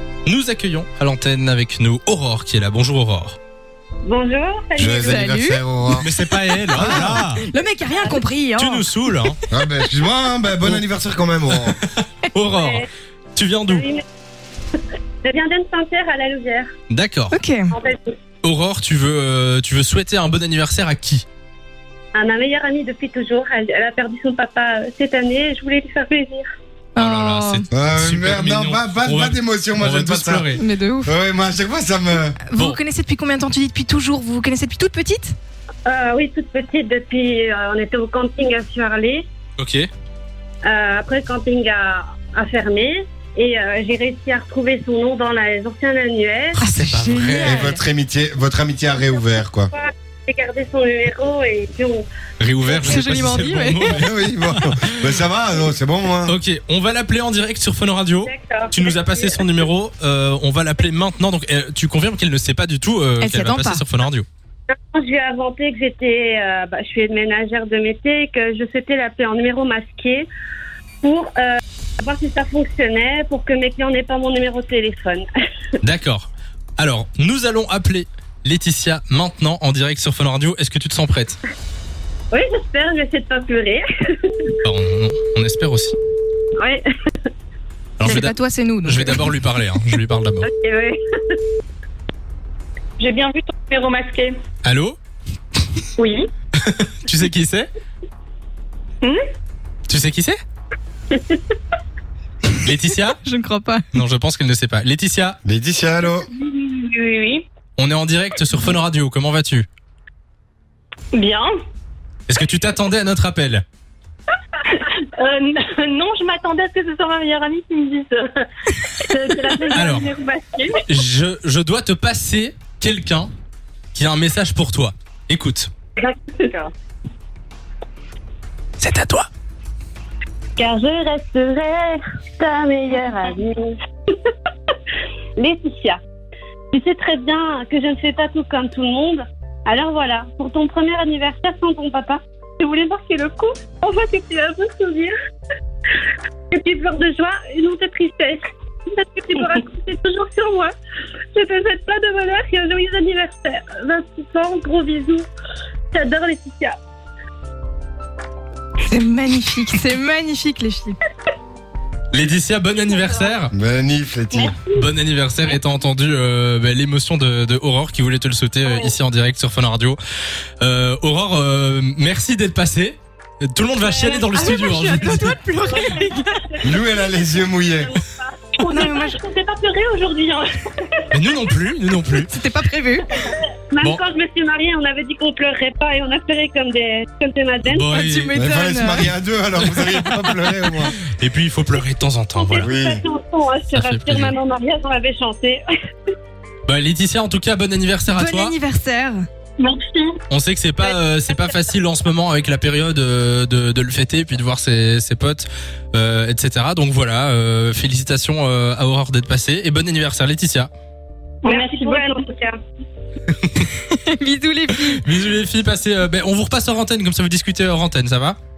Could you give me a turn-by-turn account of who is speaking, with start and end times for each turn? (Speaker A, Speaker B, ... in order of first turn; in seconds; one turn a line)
Speaker A: 0.2-3.4
Speaker B: 4.0-5.3
Speaker C: 4.8-6.1
Speaker D: 5.0-5.6
Speaker A: 6.0-7.5
Speaker C: 6.7-7.2
Speaker D: 6.8-8.9
Speaker A: 8.6-9.4
Speaker C: 9.5-11.8
Speaker A: 11.5-13.8
Speaker B: 12.6-12.9
Speaker B: 13.7-14.0
Speaker B: 15.2-16.7
Speaker A: 16.9-17.4
Speaker D: 17.3-17.8
Speaker B: 17.7-18.1
Speaker A: 18.4-21.2
Speaker B: 22.1-26.4
Speaker D: 27.0-27.6
Speaker A: 27.0-30.6
Speaker C: 27.7-30.5
Speaker D: 30.6-31.1
Speaker C: 31.1-32.4
Speaker D: 32.5-35.4
Speaker B: 35.9-39.2
Speaker A: 39.6-39.9
Speaker B: 40.6-46.6
Speaker D: 46.6-47.7
Speaker A: 46.8-47.8
Speaker C: 47.4-49.7
Speaker B: 49.7-52.0
Speaker A: 52.4-54.6
Speaker D: 52.6-54.0
Speaker C: 53.9-56.3
Speaker A: 56.3-64.3
Speaker B: 58.2-59.4
Speaker D: 63.2-63.8
Speaker B: 64.8-70.3
Speaker B: 71.0-75.3
Speaker A: 75.8-81.4
Speaker B: 82.3-84.5
Speaker A: 84.6-86.0
Speaker A: 88.0-90.5
Speaker D: 88.0-89.4
Speaker B: 90.4-91.0
Speaker E: 93.0-94.4
Speaker A: 94.6-95.0
Speaker E: 96.0-96.3
Speaker A: 96.6-97.7
Speaker A: 99.9-100.4
Speaker A: 102.6-103.2
Speaker D: 103.2-103.9
Speaker A: 103.9-105.4
Speaker C: 105.5-106.3
Speaker E: 106.2-107.5
Speaker A: 107.8-109.7
Speaker E: 111.1-111.5
Speaker A: 112.3-113.6
Speaker E: 114.7-120.8
Speaker B: 119.1-119.9
Speaker A: 119.7-120.1
Speaker A: 120.9-123.3
Speaker A: 123.9-125.7
Speaker B: 126.0-126.6
Speaker E: 126.4-126.7
Speaker A: 128.8-129.3
Speaker B: 130.6-133.7
Speaker B: 135.4-136.0
Speaker B: 136.7-145.1
Speaker B: 146.5-148.4
Speaker B: 148.9-150.7
Speaker B: 151.3-155.3
Speaker B: 155.9-156.8
Speaker D: 158.9-161.0
Speaker A: 162.1-163.5
Speaker C: 163.5-164.6
Speaker B: 164.3-164.8
Speaker A: 164.8-170.0
Speaker B: 168.7-168.9
Speaker A: 170.6-175.5
Speaker B: 173.8-174.5
Speaker D: 174.2-176.6
Speaker B: 175.2-178.6
Speaker C: 176.6-178.0
Speaker E: 178.6-181.0
Speaker D: 178.7-179.2
Speaker A: 181.1-182.3
Speaker D: 182.2-183.2
Speaker B: 183.2-187.9
Speaker A: 187.6-188.3
Speaker D: 187.9-189.1
Speaker C: 188.3-191.0
Speaker A: 189.6-190.2
Speaker A: 191.2-192.7
Speaker B: 192.3-195.6
Speaker C: 192.6-193.0
Speaker A: 193.7-194.3
Speaker A: 196.7-198.6
Speaker D: 198.1-199.3
Speaker E: 199.6-200.2
Speaker A: 200.3-210.7
Speaker E: 211.4-212.3
Speaker B: 211.5-212.6
Speaker A: 213.3-213.7
Speaker D: 213.9-215.1
Speaker A: 214.9-218.4